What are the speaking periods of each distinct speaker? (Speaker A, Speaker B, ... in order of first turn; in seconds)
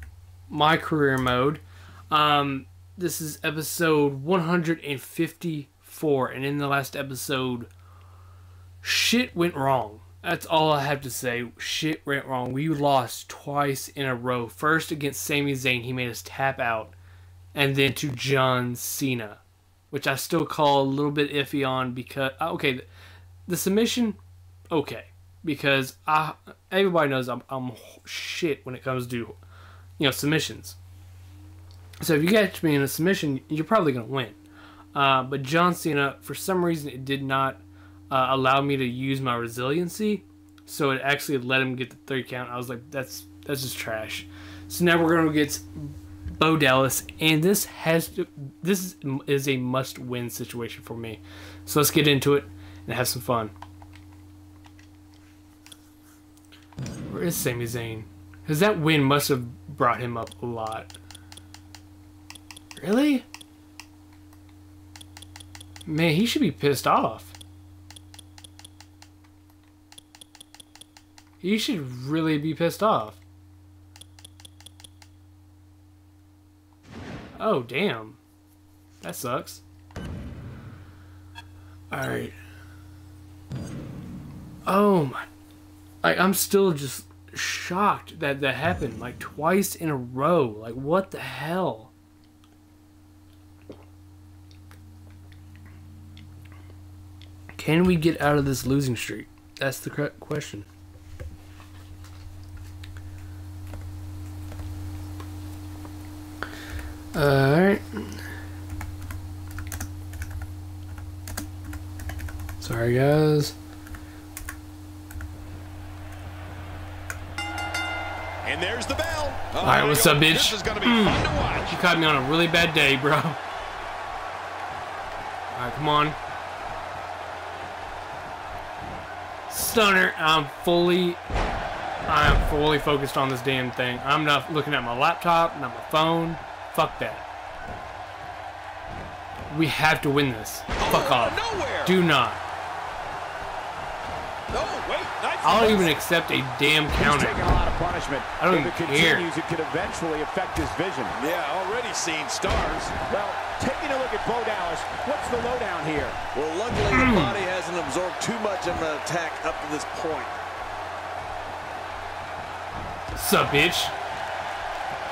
Speaker A: 0.5-7.7, 8.8-16.9, 17.5-22.8, 23.5-24.2, 24.7-29.4, 30.0-30.8, 32.0-34.4, 34.9-53.5, 57.0-60.9, 62.8-63.2, 65.8-67.3, 71.4-73.2, 77.4-78.2, 79.0-79.6, 81.9-82.3, 84.7-85.3, 86.0-91.9, 97.5-100.7, 107.1-108.2, 112.6-113.5, 119.6-123.4, 125.5-126.2, 129.5-131.2, 132.1-137.2, 139.5-142.4, 145.4-147.4, 148.4-149.3, 156.9-157.4, 163.1-163.9
Speaker B: 118.4-119.5, 147.0-151.1, 153.1-156.3
Speaker C: 119.5-121.8, 140.8-141.9, 144.5-145.9, 151.1-153.0, 156.3-160.3